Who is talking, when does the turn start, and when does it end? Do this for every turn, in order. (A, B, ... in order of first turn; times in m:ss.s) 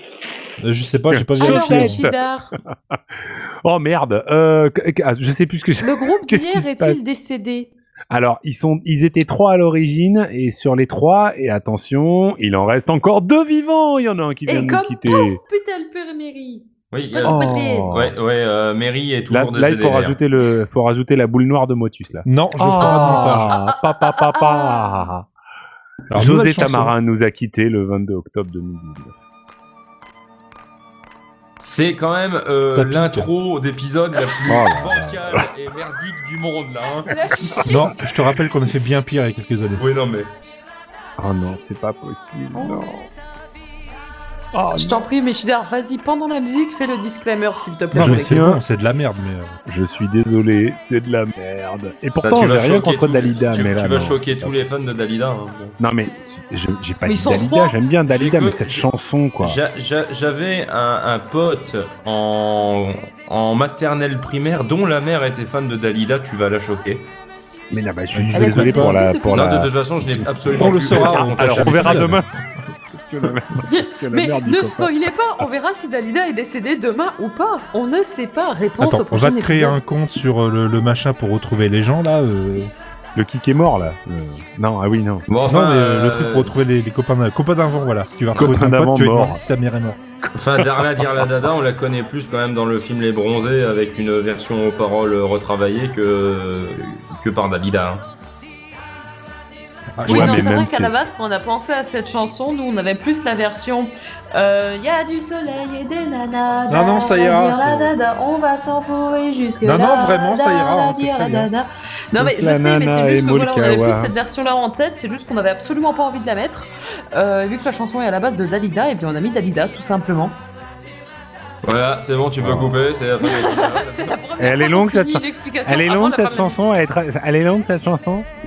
0:00.6-0:02.0 A
0:01.1-0:02.1 B
0:01.4-0:02.5 C
0:03.6-0:07.0 B
0:05.8-0:07.7 C
0:08.1-0:15.4 B
0:14.5-0:18.0 C
0:16.9-0:20.2 D
0:17.2-0:18.2 B
0:19.3-0:25.2 B
0:22.2-0:23.5 A
0:22.8-0:25.1 C
0:26.1-0:26.9 A
0:26.2-0:29.1 B
0:31.6-0:37.1 D
0:32.7-0:33.3 A
0:34.5-0:35.4 B
0:37.1-0:38.0 C
0:37.6-0:37.9 B
0:37.7-0:39.8 A
0:39.8-0:40.3 D
0:41.2-0:43.1 B
0:42.6-0:42.9 C
0:44.5-0:45.0 B
0:44.8-0:48.4 C
0:47.9-0:49.6 A
0:48.0-0:48.6 B
0:49.7-0:54.8 B
0:52.2-0:55.8 D
0:55.8-0:59.6 B
0:57.0-0:57.8 C
0:58.1-0:58.9 D
0:59.4-1:07.1 D
1:07.7-1:10.3 B
1:08.1-1:09.0 A
1:08.3-1:09.5 C
1:09.3-1:12.2 D
1:10.6-1:12.2 A
1:10.9-1:12.3 B
1:12.9-1:14.9 B
1:13.7-1:19.8 C
1:18.8-1:22.7 A
1:23.2-1:25.3 B
1:25.3-1:26.6 D
1:25.4-1:30.0 A
1:28.4-1:29.4 B
1:30.4-1:38.1 D
1:40.0-1:40.6 A
1:40.0-1:40.9 B
1:40.1-2:00.4 C
1:46.7-1:47.9 A
1:49.6-1:51.5 A
1:52.1-1:54.1 B
2:01.6-2:04.2 D
2:02.4-2:02.8 B
2:03.2-2:06.6 C
2:04.4-2:08.3 B